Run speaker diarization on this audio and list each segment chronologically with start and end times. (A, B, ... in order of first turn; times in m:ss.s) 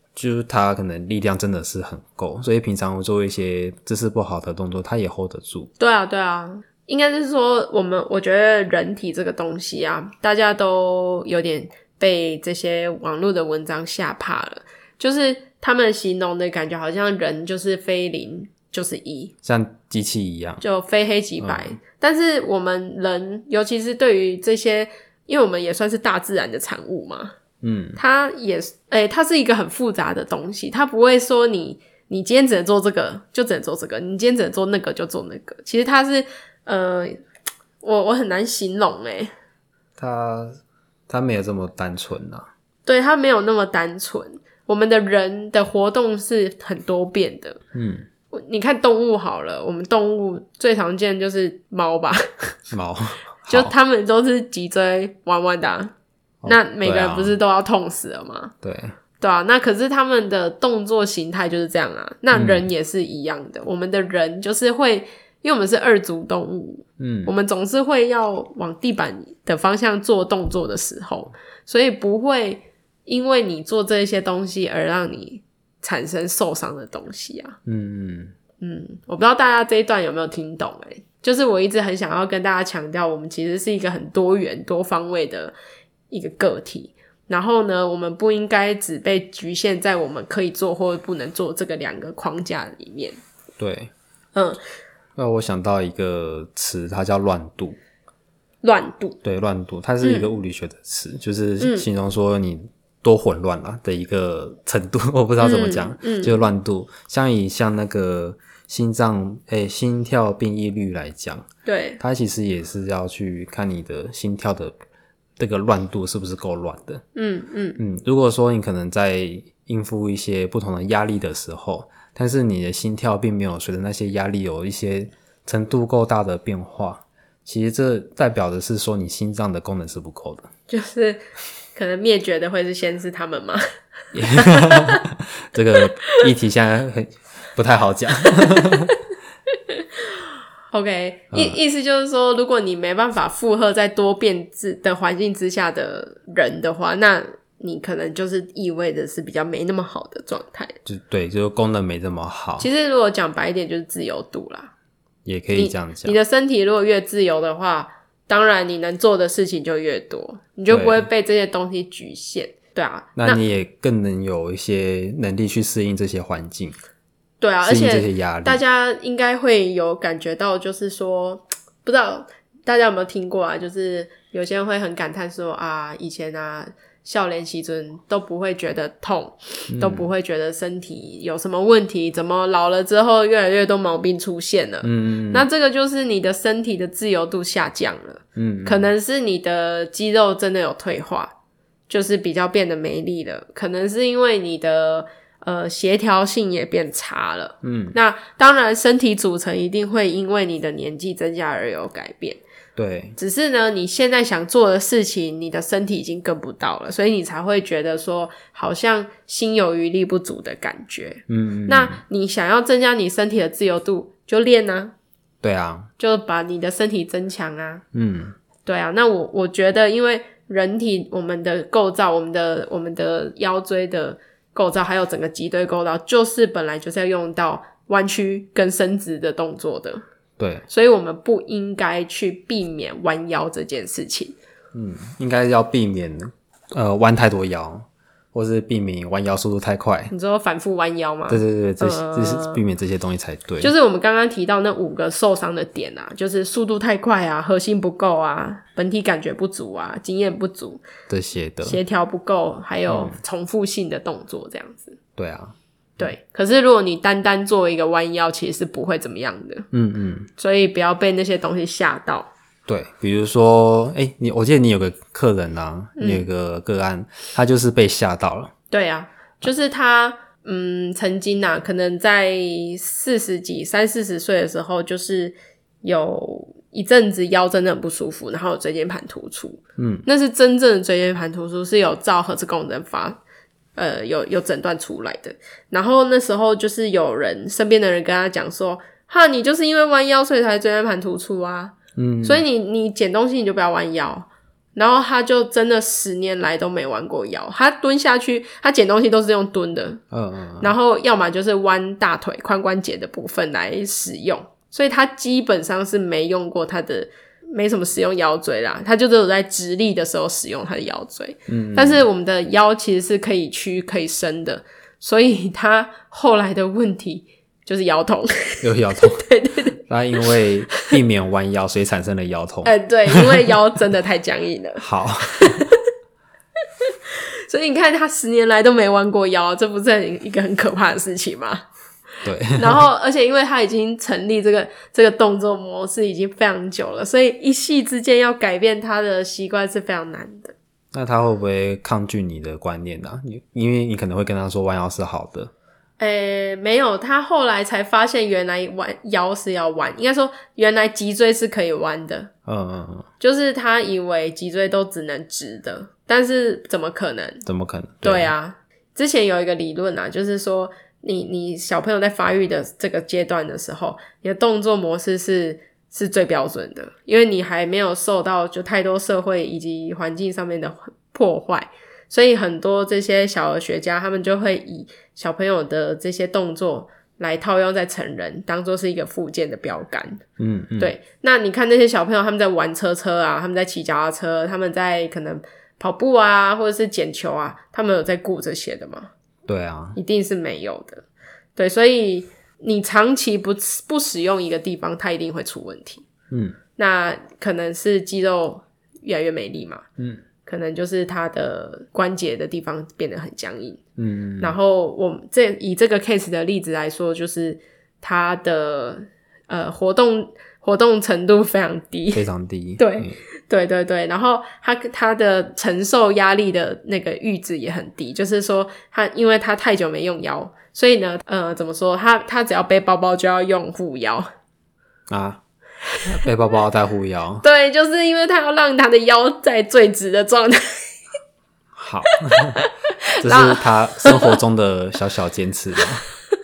0:00.2-0:05.7 A
0:05.8-0:19.3 B
0:19.4-0:20.6 A
0:20.6-0:27.3 B
0:21.4-0:21.8 A
0:27.6-0:28.0 A
0:28.0-0:37.2 B
0:37.8-0:39.3 B
0:40.0-0:42.5 A
0:42.8-0:47.6 B
0:47.7-0:48.1 A
0:48.3-0:52.6 B
0:52.7-0:53.7 A
0:53.5-0:55.9 B
0:56.4-0:57.4 A
0:56.4-0:58.5 B
0:58.6-0:58.9 A
0:59.2-1:17.6 B
1:02.3-1:02.6 A
1:07.0-1:07.3 A
1:17.6-1:18.3 A
1:18.6-1:25.5 B
1:26.1-1:33.2 B
1:33.6-1:33.9 A
1:34.3-1:34.6 B
1:35.2-1:37.8 A
1:38.6-1:39.2 B
1:39.2-1:51.4 A
1:40.0-1:40.3 B
1:41.6-1:41.9 B
1:45.4-1:46.4 B
1:51.6-1:52.0 B
1:52.0-1:54.7 A
1:55.4-1:57.0 A
1:57.1-1:57.8 B
1:57.8-2:10.5 A
2:10.7-2:11.2 B
2:11.7-2:13.6 B
2:14.1-2:18.9 A
2:14.2-2:15.0 B
2:15.8-2:16.2 B
2:18.5-2:18.8 B
2:20.7-2:30.8 B
2:21.3-2:21.6 A
2:30.8-2:32.7 A
2:32.6-2:34.7 B
2:35.2-2:36.2 A
2:35.5-2:43.4 B
2:40.7-2:41.0 A
2:43.2-2:46.8 A
2:47.4-3:11.3 B
2:47.6-2:48.6 A
2:59.7-3:00.1 A
3:04.8-3:05.4 A
3:08.4-3:08.9 A
3:11.9-3:22.4 B
3:17.6-3:18.0 A
3:22.8-3:23.2 A
3:23.2-3:34.9 B
3:31.3-3:32.0 A
3:35.4-3:35.9 A
3:36.0-3:37.8 B
3:37.9-3:38.3 A
3:38.6-3:50.0 B
3:50.4-3:50.6 A
3:50.7-3:54.3 B
3:54.7-4:00.1 A
4:00.1-4:02.6 B
4:01.3-4:03.7 A
4:03.6-4:10.8 B
4:11.1-4:11.8 A
4:11.6-4:15.0 B
4:12.9-4:13.2 A
4:15.2-4:16.1 A
4:16.0-4:19.7 B
4:19.7-4:20.3 A
4:20.4-4:22.3 B
4:22.7-4:28.5 A
4:26.0-4:26.2 B
4:28.7-4:43.2 B
4:39.8-4:40.0 A
4:43.8-5:00.0 B
4:52.0-4:52.4 A
5:00.1-5:00.7 A
5:00.6-5:20.3 B
5:11.5-5:12.0 A
5:18.6-5:19.2 A
5:19.9-5:23.5 A
5:22.6-5:25.8 B
5:24.8-5:25.7 A
5:26.8-5:31.6 B
5:32.2-5:32.8 A
5:32.6-5:40.5 B
5:40.9-5:45.5 A
5:46.0-5:52.3 B
5:52.4-5:53.1 A
5:53.2-5:57.4 B
5:57.4-5:58.3 A
5:58.0-6:20.2 B
6:20.4-6:20.9 A
6:20.8-6:29.1 B
6:29.5-6:30.0 A
6:30.0-6:31.0 B
6:31.6-6:36.0 B
6:36.3-6:36.6 A
6:36.8-6:39.8 B
6:40.4-6:43.8 B
6:44.0-6:44.6 A
6:44.4-6:52.2 B
6:52.1-6:53.2 A
6:52.8-7:04.3 B
7:05.1-7:05.4 A
7:06.0-7:07.4 A
7:07.4-7:10.8 B
7:11.7-7:12.6 A
7:12.3-7:14.4 B
7:13.2-7:16.0 A